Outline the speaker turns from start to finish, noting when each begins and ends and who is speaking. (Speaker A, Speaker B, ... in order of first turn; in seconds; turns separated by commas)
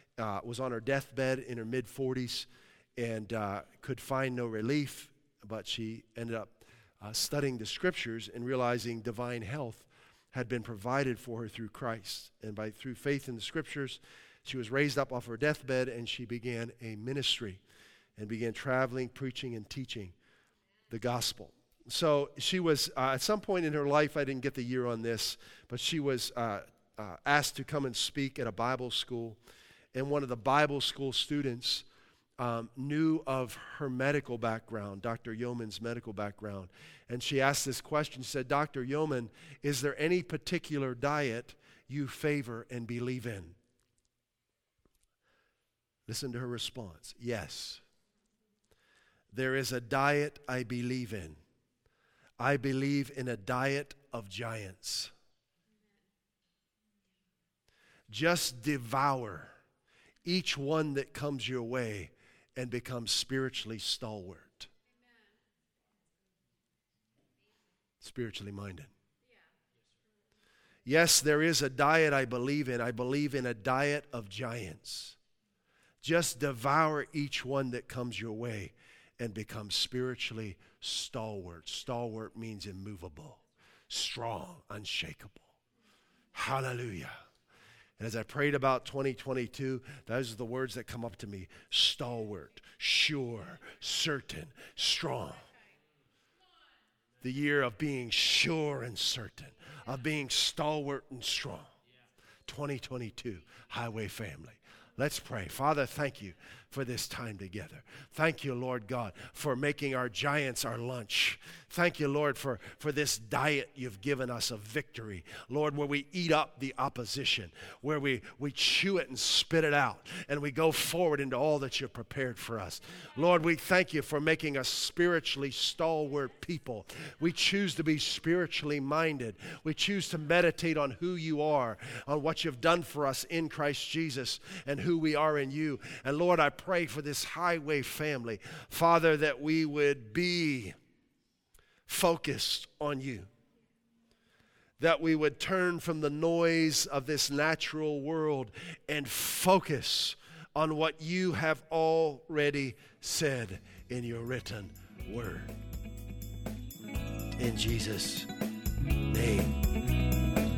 Speaker A: 0.2-17.6, Speaker A: 18.2-20.1, Speaker A: 20.9-29.4, Speaker A: 29.9-31.9, Speaker A: 32.4-43.5, Speaker A: 46.1-47.8, Speaker A: 49.3-51.4, Speaker A: 52.4-55.1, Speaker A: 58.1-59.5, Speaker A: 60.2-64.7, Speaker A: 68.0-68.9, Speaker A: 70.8-75.2, Speaker A: 76.0-85.5, Speaker A: 86.3-87.1, Speaker A: 88.0-95.5, Speaker A: 97.2-101.7, Speaker A: 102.5-140.8, Speaker A: 141.9-143.3, Speaker A: 144.8-155.5, Speaker A: 157.4-158.3, Speaker A: 159.1-159.6